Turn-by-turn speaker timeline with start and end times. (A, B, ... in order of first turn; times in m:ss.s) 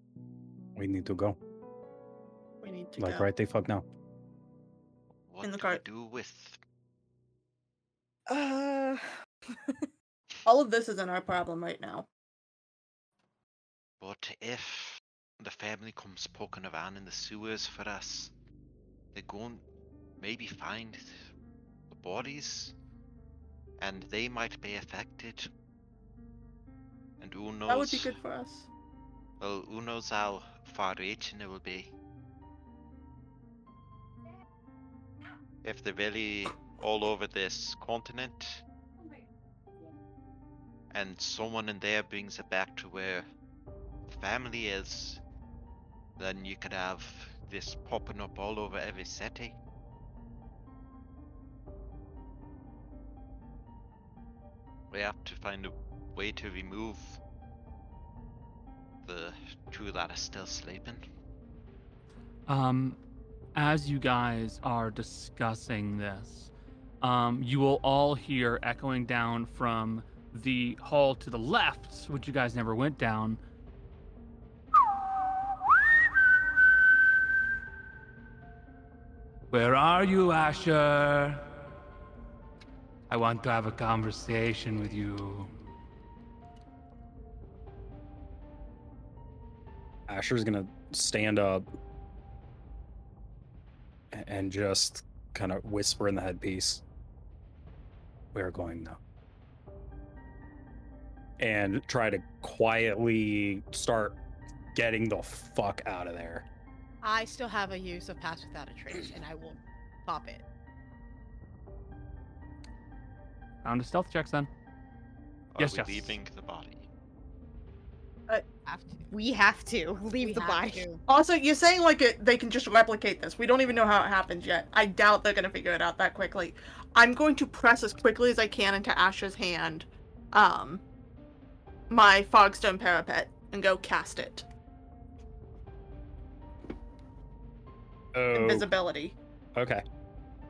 0:00.8-0:01.4 A
0:02.6-0:03.3 B
0:03.0-0:03.8 A
0:05.3-0:06.6 C
0:05.4-0:05.8 B
0:08.4-0:08.9 D
0:10.4-0:12.1 B
0:14.0-0:18.3 C
0:19.1-0:19.6 C
0:20.2-0:21.3 C
0:21.9-0:22.8 C
0:23.8-0:25.5 C
0:27.2-0:28.2 C
0:27.7-0:28.7 B
0:29.4-0:31.9 C
0:35.6-0:38.6 C
0:40.9-0:43.2 C
0:44.1-0:45.2 C
0:46.2-0:49.6 C
0:54.9-0:57.2 C
0:59.0-1:01.0 C
1:02.5-1:03.0 E
1:03.6-1:06.5 E
1:07.0-1:13.4 E
1:19.5-1:21.5 E
1:23.1-1:25.5 E
1:30.1-1:31.7 A
1:34.1-1:36.8 A
1:38.3-1:39.0 A
1:41.4-1:44.2 A
1:44.8-1:46.5 A
1:47.0-1:50.4 F
1:53.6-1:54.5 E
1:55.5-1:56.9 C
1:55.6-1:56.2 E
1:58.3-1:59.1 F
1:59.1-2:00.9 D
2:00.2-2:01.0 F
2:01.1-2:10.8 B
2:11.9-2:14.5 B
2:18.1-2:18.7 A
2:18.3-2:19.2 B
2:19.6-2:19.8 A